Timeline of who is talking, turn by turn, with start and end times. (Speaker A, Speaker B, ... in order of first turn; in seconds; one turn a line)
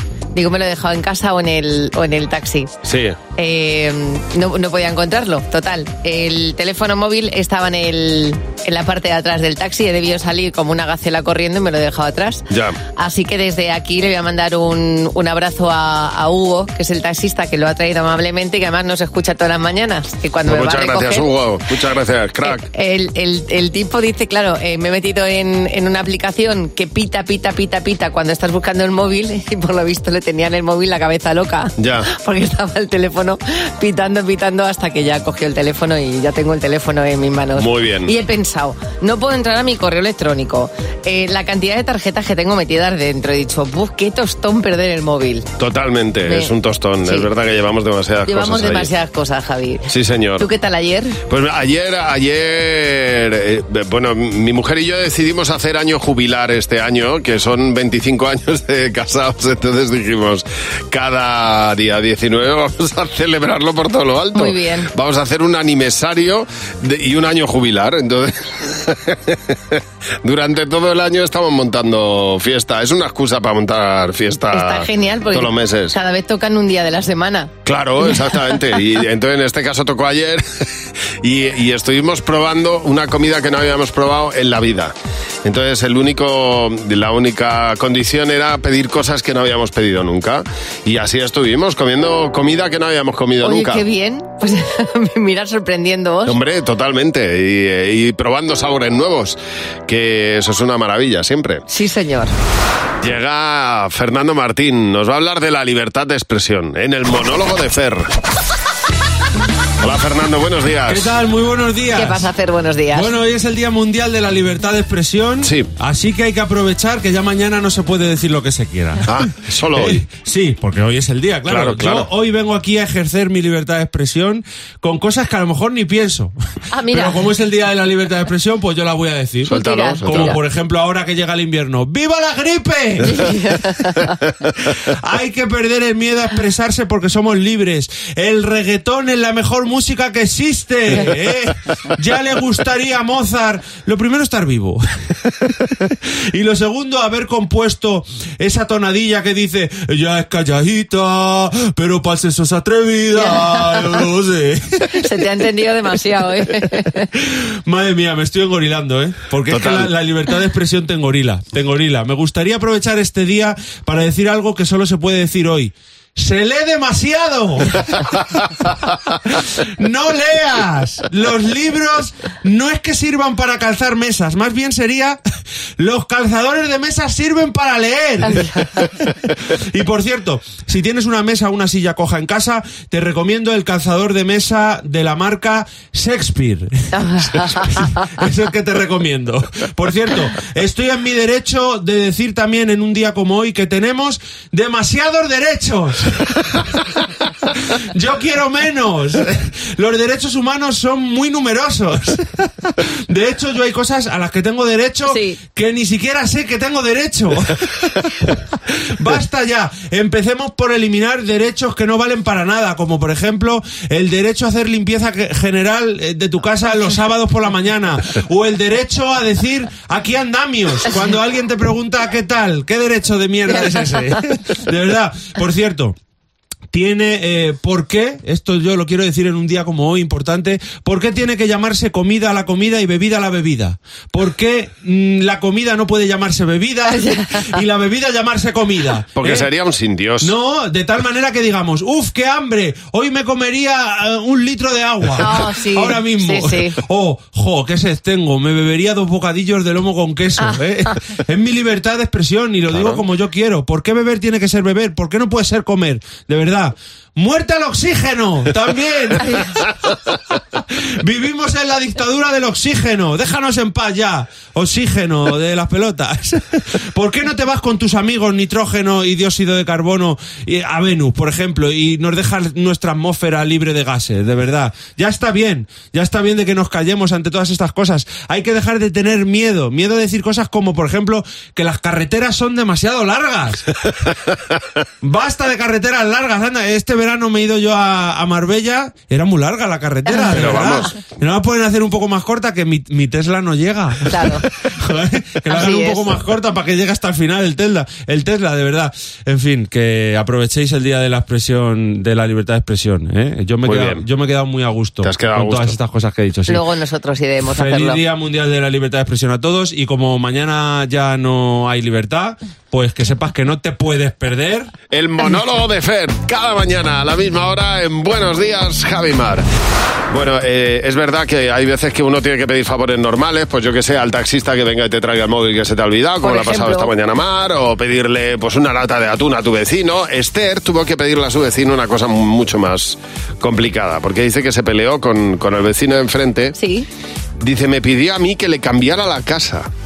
Speaker A: 0.3-2.7
Speaker B: 2.8-3.2
Speaker A: 3.4-21.3
Speaker B: 12.5-12.8
Speaker B: 20.5-22.6
Speaker A: 22.4-45.5
Speaker B: 31.8-32.1
Speaker B: 37.6-38.1
Speaker B: 45.6-48.9
Speaker A: 48.3-51.2
Speaker B: 49.9-50.5
Speaker B: 51.3-76.0
Speaker A: 64.3-64.9
Speaker A: 74.5-77.5
Speaker B: 77.7-80.7
Speaker A: 78.1-78.6
Speaker B: 81.2-84.9
Speaker B: 85.5-93.8
Speaker A: 93.4-96.3
Speaker B: 96.3-101.7
Speaker A: 101.7-102.3
Speaker B: 103.0-108.1
Speaker B: 109.8-111.1
Speaker C: 110.9-112.3
Speaker A: 112.0-113.1
Speaker C: 112.9-119.1
Speaker B: 115.4-115.7
Speaker B: 119.1-120.0
Speaker C: 119.7-126.3
Speaker B: 121.5-122.1
Speaker A: 126.7-127.3
Speaker C: 126.9-133.3
Speaker B: 129.5-130.4
Speaker A: 129.5-130.4
Speaker A: 133.0-134.2
Speaker C: 134.9-144.8
Speaker C: 145.4-155.0
Speaker A: 153.1-154.1
Speaker A: 154.9-157.1
Speaker C: 157.2-168.2
Speaker B: 159.5-159.9
Speaker C: 169.3-175.2
Speaker C: 175.8-178.9
Speaker C: 179.5-196.6
Speaker A: 186.9-188.0
Speaker C: 197.7-226.0
Speaker A: 205.1-205.4
Speaker C: 226.7-239.5
Speaker A: 236.9-237.6
Speaker B: 239.2-240.3
Speaker C: 240.2-259.4
Speaker A: 245.2-246.8
Speaker B: 252.7-253.0
Speaker A: 259.2-259.6
Speaker C: 260.7-283.7
Speaker C: 285.0-306.6
Speaker A: 290.1-290.7
Speaker B: 290.4-290.9
Speaker A: 294.1-294.5
Speaker A: 295.5-296.2
Speaker B: 303.6-304.1
Speaker B: 305.0-305.8
Speaker A: 306.5-308.0
Speaker C: 307.4-314.7
Speaker B: 314.9-319.4
Speaker B: 320.1-336.6
Speaker A: 326.2-326.9
Speaker A: 336.6-336.9
Speaker B: 337.4-339.7